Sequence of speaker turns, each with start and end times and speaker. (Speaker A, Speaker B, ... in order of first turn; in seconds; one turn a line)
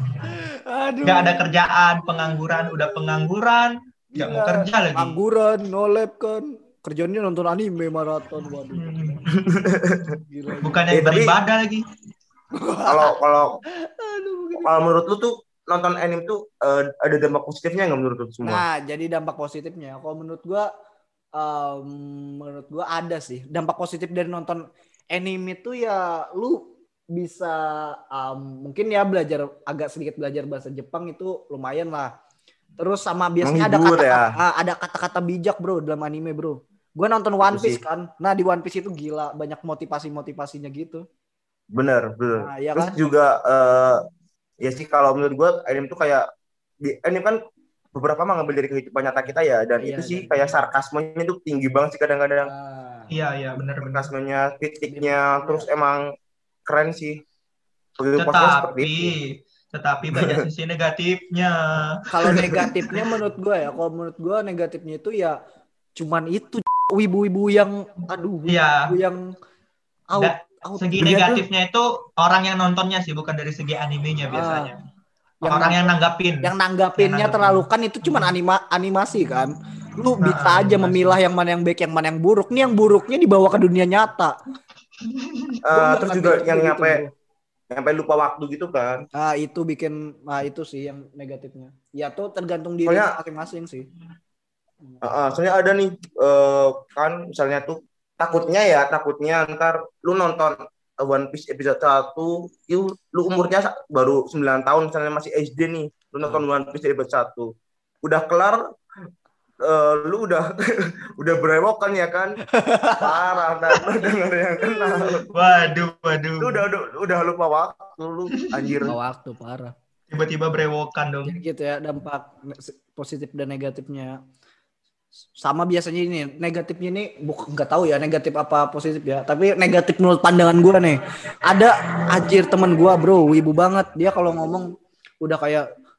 Speaker A: 0.2-1.5
Speaker B: 1.0-5.2
Speaker A: 2.5-3.2
Speaker A: 4.1-9.2
Speaker B: 8.7-9.4
Speaker C: 9.3-10.2
Speaker A: 10.3-10.9
Speaker B: 10.6-11.8
Speaker C: 10.9-11.4
Speaker A: 12.5-13.1
Speaker C: 12.8-13.6
Speaker A: 13.8-14.7
Speaker C: 14.6-18.6
Speaker A: 18.4-20.7
Speaker A: 21.4-32.1
Speaker A: 32.8-41.0
Speaker C: 33.4-34.3
Speaker C: 37.4-37.8
Speaker C: 41.7-44.0
Speaker A: 42.4-43.0
Speaker C: 44.6-46.2
Speaker C: 46.8-47.4
Speaker C: 47.9-52.5
Speaker A: 49.8-50.4
Speaker A: 52.4-53.1
Speaker B: 53.1-54.1
Speaker C: 53.8-56.1
Speaker A: 54.9-55.7
Speaker C: 56.7-57.2
Speaker C: 58.0-59.1
Speaker B: 58.2-62.1
Speaker C: 60.1-60.4
Speaker A: 62.1-65.4
Speaker C: 62.4-62.7
Speaker A: 66.0-69.3
Speaker B: 68.5-68.9
Speaker A: 70.1-71.0
Speaker B: 70.2-74.8
Speaker C: 71.0-71.4
Speaker A: 74.3-74.7
Speaker A: 75.4-84.4
Speaker B: 75.4-78.3
Speaker B: 80.2-81.2
Speaker B: 85.0-85.6
Speaker C: 85.6-87.0
Speaker A: 85.7-87.1
Speaker C: 87.7-89.0
Speaker A: 89.2-93.8
Speaker C: 92.8-93.1
Speaker C: 95.0-107.5
Speaker C: 108.0-108.6
Speaker C: 109.6-112.4
Speaker A: 112.5-113.2
Speaker C: 113.0-115.3
Speaker B: 115.3-116.6
Speaker C: 116.4-119.0
Speaker B: 118.4-118.8
Speaker A: 118.8-119.7
Speaker B: 120.1-121.4
Speaker A: 121.2-124.2
Speaker A: 125.4-134.7
Speaker A: 135.2-135.7